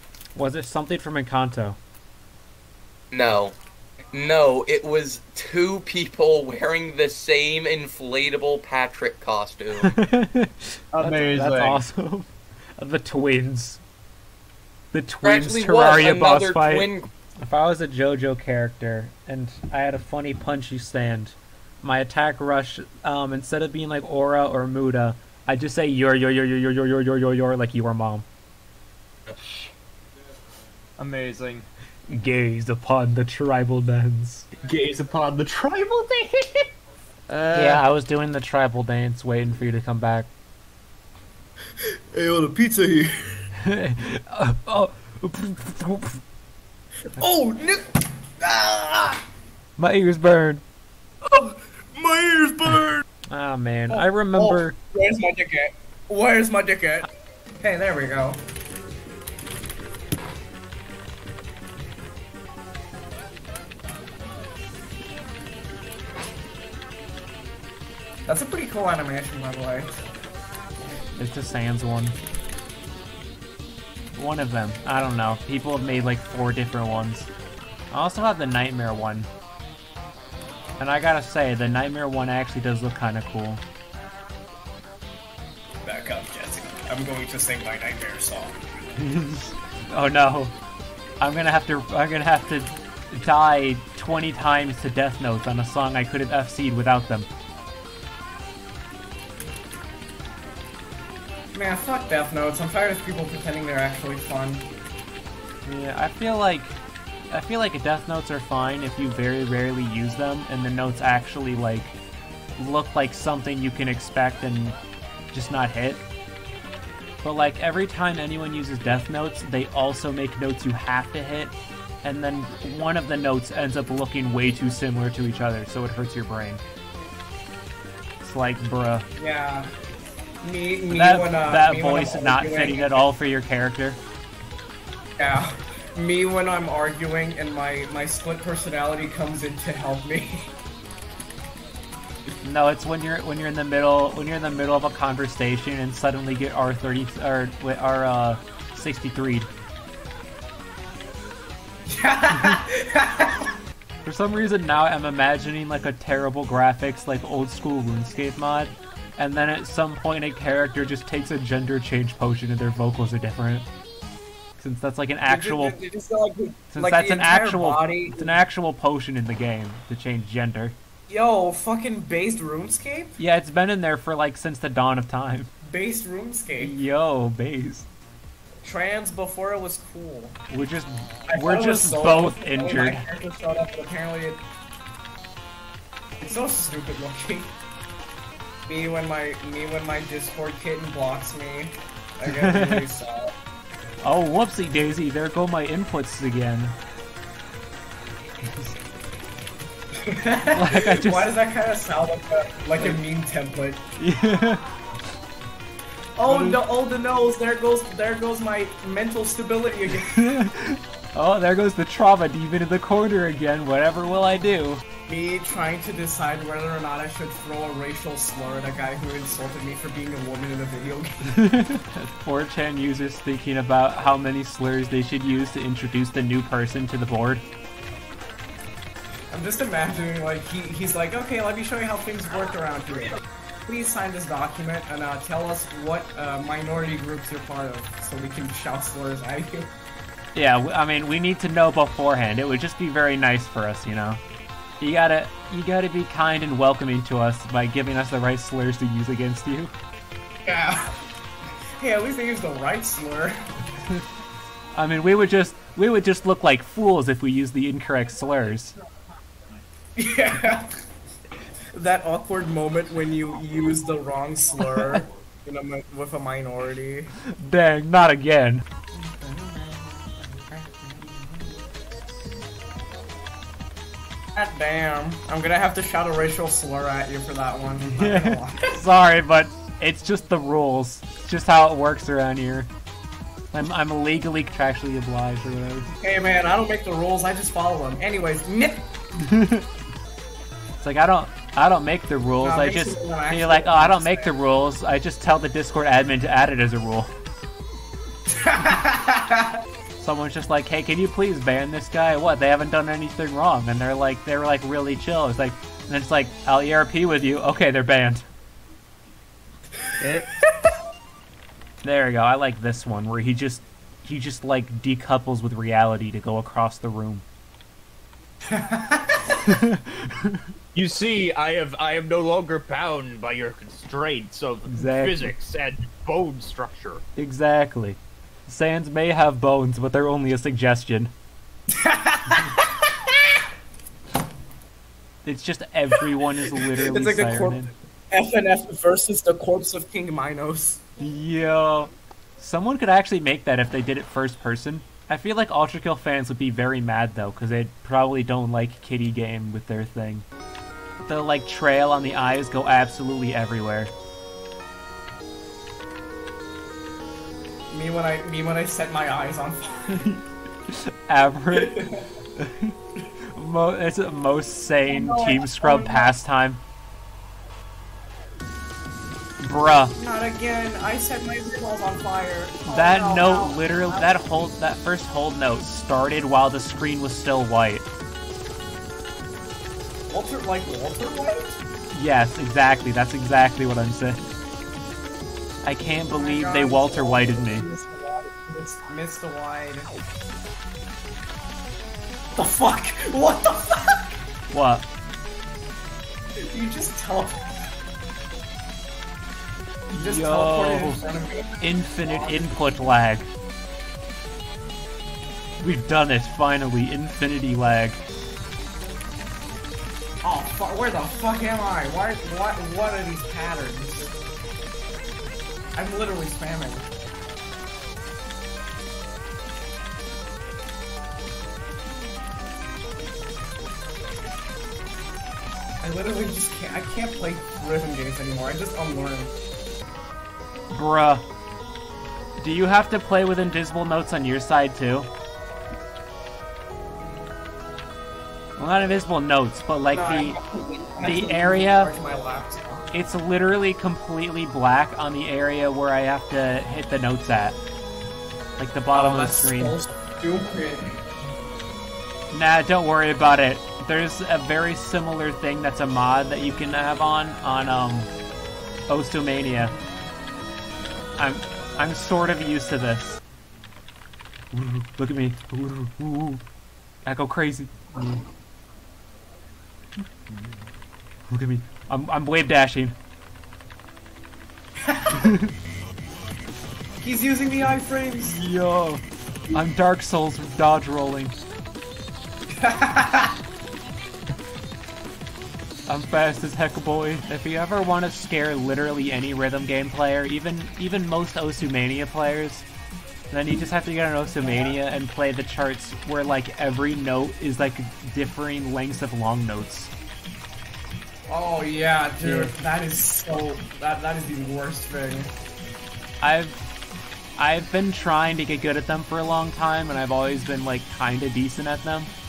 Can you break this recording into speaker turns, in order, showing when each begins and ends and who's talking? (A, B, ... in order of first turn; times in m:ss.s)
0:00.3-0:01.8 A
0:03.1-0:03.5 B
0:04.1-0:09.9 B
0:09.8-0:12.3 A
0:10.9-0:11.8 C
0:12.8-0:13.8 A
0:14.9-0:16.9 A
0:15.2-0:17.1 B
0:17.4-0:28.2 A
0:31.0-0:31.6 C
0:32.1-0:34.5 A
0:34.6-0:36.6 C
0:37.3-0:37.8 C
0:37.5-0:40.3 A
0:42.1-0:43.1 D
0:43.6-0:46.2 A
0:47.1-0:49.2 D
0:49.8-0:50.6 A
0:51.2-0:53.0 D
0:53.3-0:54.8 A
0:53.9-0:57.1 D
0:57.6-0:58.4 D
1:08.2-1:10.0 D
1:11.1-1:12.2 A
1:14.1-1:17.3 A
1:17.9-1:19.3 A
1:20.8-1:23.6 A
1:25.8-1:28.6 D
1:29.0-1:30.5 A
1:31.2-1:37.3 A
1:41.5-1:44.7 D
1:45.6-1:46.8 A
1:47.3-1:52.0 A
1:52.6-1:54.8 A
1:55.3-1:56.0 A
1:57.2-2:06.6 A
2:08.2-2:09.0 A
2:09.2-2:09.7 D
2:10.4-2:13.0 D
2:10.9-2:14.0 A
2:15.2-2:20.5 D
2:22.4-2:29.5 A
2:31.9-2:33.5 D
2:34.0-2:43.7 A
2:44.6-2:45.8 A
2:45.3-2:48.3 D
2:46.7-2:50.7 A
2:51.1-2:53.2 D
2:53.2-2:55.5 A
2:55.6-2:56.8 D
2:56.6-2:57.8 A
2:58.6-3:00.4 D
3:00.5-3:03.0 A
3:01.3-3:04.4 D
3:06.2-3:07.5 D
3:08.7-3:13.3 D
3:12.3-3:12.9 A
3:14.0-3:16.7 A
3:18.4-3:18.7 A
3:20.0-3:23.8 D
3:20.5-3:21.3 A
3:24.0-3:24.6 A
3:26.2-3:30.2 D
3:26.2-3:26.6 A
3:30.0-3:34.8 A
3:35.1-3:41.4 D
3:41.3-3:47.4 A
3:49.3-3:59.7 D
4:00.3-4:04.2 A
4:04.8-4:09.7 A
4:10.4-4:11.0 D
4:11.8-4:13.3 D
4:14.7-4:18.7 A
4:20.0-4:20.7 D
4:21.7-4:27.1 D
4:27.3-4:28.6 A
4:28.9-4:31.6 D
4:34.3-4:38.8 D
4:37.9-4:42.7 A
4:43.5-4:45.9 A
4:46.0-4:48.9 D
4:49.2-4:49.6 A
4:50.8-4:57.1 A
4:52.4-4:54.4 D
4:58.3-4:59.5 D
5:00.0-5:08.2 A
5:11.8-5:17.2 A
5:18.5-5:19.4 D
5:19.5-5:20.4 A
5:20.7-5:27.0 C
5:24.7-5:25.3 A
5:27.2-5:31.1 A
5:31.7-5:32.7 D
5:35.2-5:37.7 A
5:36.6-5:40.8 D
5:41.0-5:50.2 A
5:51.0-5:53.9 A
5:57.7-6:00.2 D
6:00.7-6:01.8 A
6:01.5-6:02.0 D
6:02.4-6:02.7 A
6:03.3-6:06.6 A
6:04.8-6:06.1 D
6:09.4-6:09.9 A
6:09.9-6:14.2 D
6:12.6-6:17.9 A
6:20.1-6:21.6 D
6:21.9-6:24.2 A
6:25.6-6:27.6 A
6:26.1-6:29.9 D
6:32.4-6:34.2 D
6:34.5-6:34.8 A
6:36.5-6:37.5 D
6:39.9-6:41.0 A
6:39.9-6:42.6 D
6:41.6-6:43.3 A
6:45.6-6:48.0 A
6:50.2-6:54.1 D
6:55.8-6:56.8 D
7:05.8-7:09.3 D
7:10.7-7:11.2 A
7:12.4-7:15.1 A
7:18.6-7:20.4 A
7:19.9-7:22.8 D
7:21.0-7:21.9 A
7:22.9-7:27.6 A
7:28.6-7:29.8 A
7:28.9-7:30.9 D
7:32.3-7:38.1 A
7:38.9-7:39.7 A
7:41.2-7:43.2 A
7:44.5-7:46.4 A
7:47.0-7:48.2 A
7:51.3-7:53.0 A
7:54.8-7:55.2 D
7:55.1-7:55.5 A
7:57.0-7:58.4 D
7:58.2-8:01.4 A
8:02.6-8:03.3 D
8:05.9-8:12.6 A
8:13.3-8:19.9 A
8:14.4-8:14.7 D
8:21.3-8:25.3 D
8:22.2-8:22.5 A
8:26.2-8:26.6 A
8:27.4-8:32.1 A